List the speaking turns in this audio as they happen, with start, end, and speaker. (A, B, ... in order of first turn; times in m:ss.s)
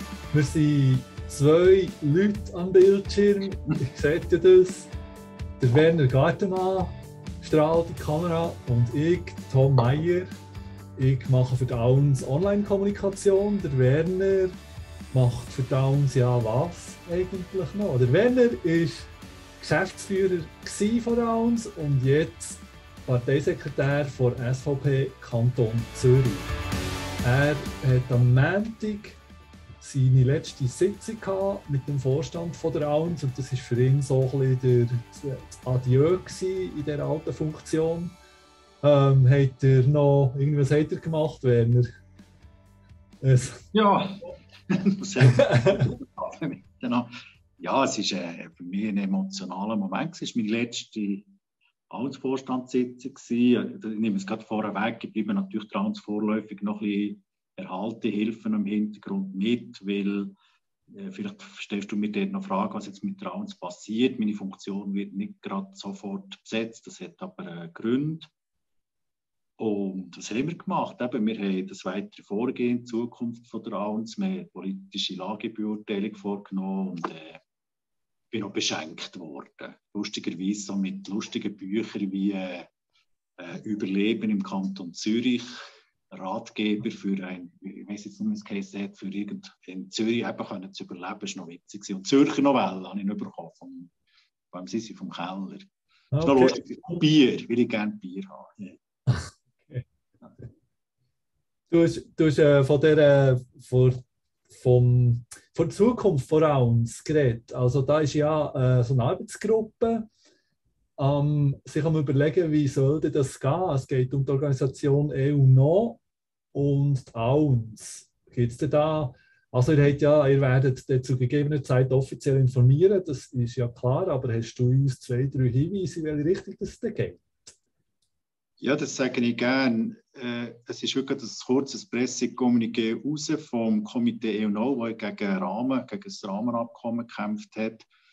0:00.3-0:04.9 A
0:05.6-0:10.3 A
0:11.0-0:14.6 A
0:15.1-0:19.1 A
0:19.6-0:26.5 A
0:27.2-0:29.2 A
0:29.8-0:38.1 A
0:38.8-0:41.9 A
0:43.2-0:43.6 A
0:43.7-0:51.3 B
0:45.3-0:45.8 A
0:51.9-1:00.3 B
1:00.9-1:08.3 B
1:09.6-1:17.4 B
1:18.3-1:22.7 B
1:23.4-1:25.5 B
1:26.1-1:33.9 B
1:34.5-1:35.7 B
1:36.1-1:37.0 A
1:36.2-1:38.8 B
1:39.1-1:39.8 A
1:41.7-1:44.0 A
1:44.5-1:50.1 A
1:51.0-1:56.0 A
1:56.5-2:07.2 A
2:08.6-2:17.9 B